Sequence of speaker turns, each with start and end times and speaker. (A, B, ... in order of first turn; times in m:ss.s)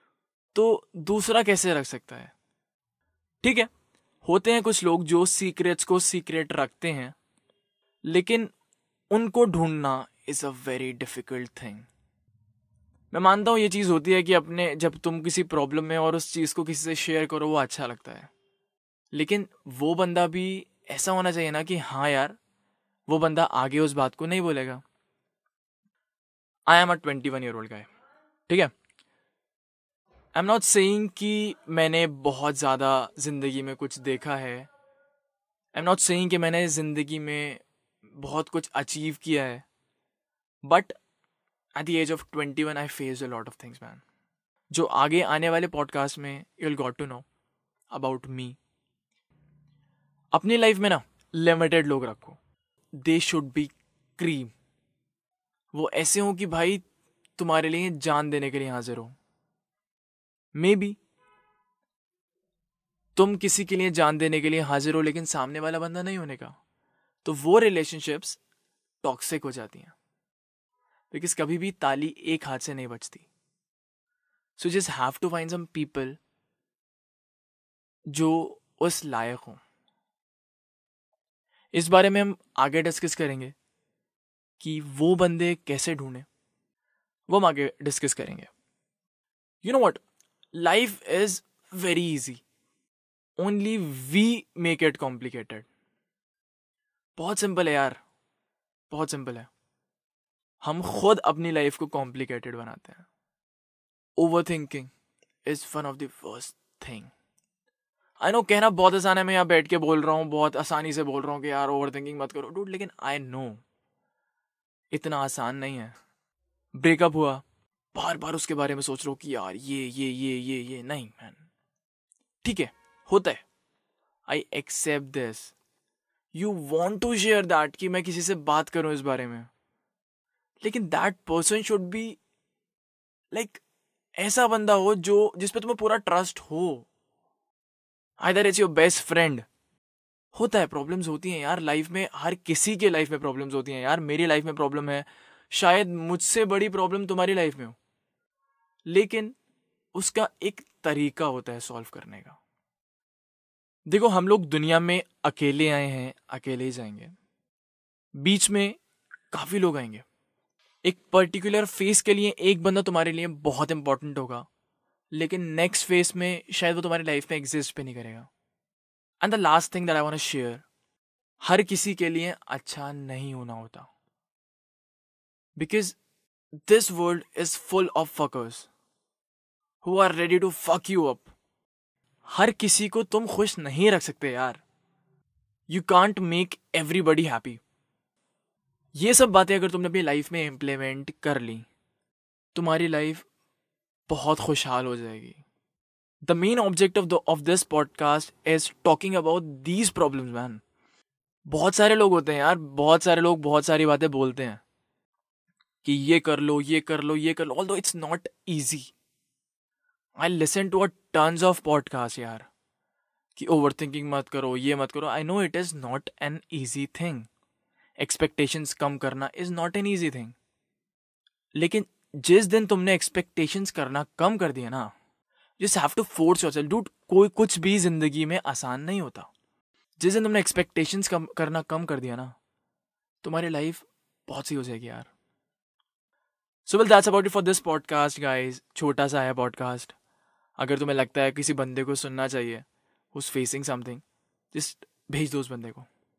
0:00.5-0:02.3 A
0:03.4-0:03.7 A
0:04.2-0:07.1 A
0:08.0-0:08.5 A
0:09.1-0:11.9 A
0:13.1-0:18.3 A
0:19.1-0:22.4 A
0:23.1-0:24.8 A
0:26.7-0:27.9 A
0:30.3-0:34.7 A
0:35.7-0:37.6 A
0:38.2-0:39.6 A
0:40.6-0:40.9 A
0:41.8-0:44.0 A
0:44.7-0:47.2 A
0:47.9-0:48.6 A
0:50.3-0:52.4 A
0:53.0-0:54.5 A
0:55.7-0:56.8 A
0:57.4-0:59.1 A
1:00.5-1:01.0 A
1:03.2-1:06.6 A
1:07.2-1:08.4 A
1:09.0-1:09.9 A
1:11.1-1:13.3 A
1:14.6-1:16.2 A
1:18.1-1:19.6 A
1:21.7-1:23.5 A
1:24.6-1:26.3 A
1:27.3-1:28.5 A
1:29.6-1:30.0 A
1:30.5-1:32.4 A
1:33.4-1:35.7 A
1:37.2-1:38.0 A
1:38.9-1:39.5 A
1:40.6-1:43.1 A
1:44.2-1:44.9 A
1:45.4-1:47.1 A
1:48.2-1:53.6 A
1:54.9-1:55.9 A
1:56.7-2:01.4 A
2:02.4-2:03.4 A
2:04.3-2:05.5 A
2:06.3-2:09.5 A
2:10.6-2:12.2 A
2:13.3-2:13.6 A
2:14.2-2:16.9 A
2:18.2-2:19.4 A
2:20.3-2:27.8 A
2:28.9-2:29.4 A
2:29.9-2:32.4 A
2:33.9-2:37.1 A
2:38.2-2:38.8 A
2:39.3-2:40.0 A
2:40.8-2:44.4 A
2:45.1-2:48.3 A
2:49.2-2:50.6 A
2:51.4-2:53.9 A
2:55.6-2:56.0 A
2:56.7-2:58.7 A
2:59.8-3:01.3 A
3:02.3-3:04.6 A
3:05.7-3:07.6 A
3:09.0-3:11.7 A
3:12.5-3:13.2 A
3:14.1-3:15.4 A
3:16.2-3:20.6 A
3:21.5-3:24.6 A
3:25.8-3:28.9 A
3:30.2-3:32.5 A
3:33.3-3:37.3 A
3:38.0-3:40.3 A
3:41.6-3:44.9 A
3:45.6-3:49.3 A
3:50.0-3:52.4 A
3:53.2-3:55.1 A
3:56.7-3:59.9 A
4:00.6-4:05.9 A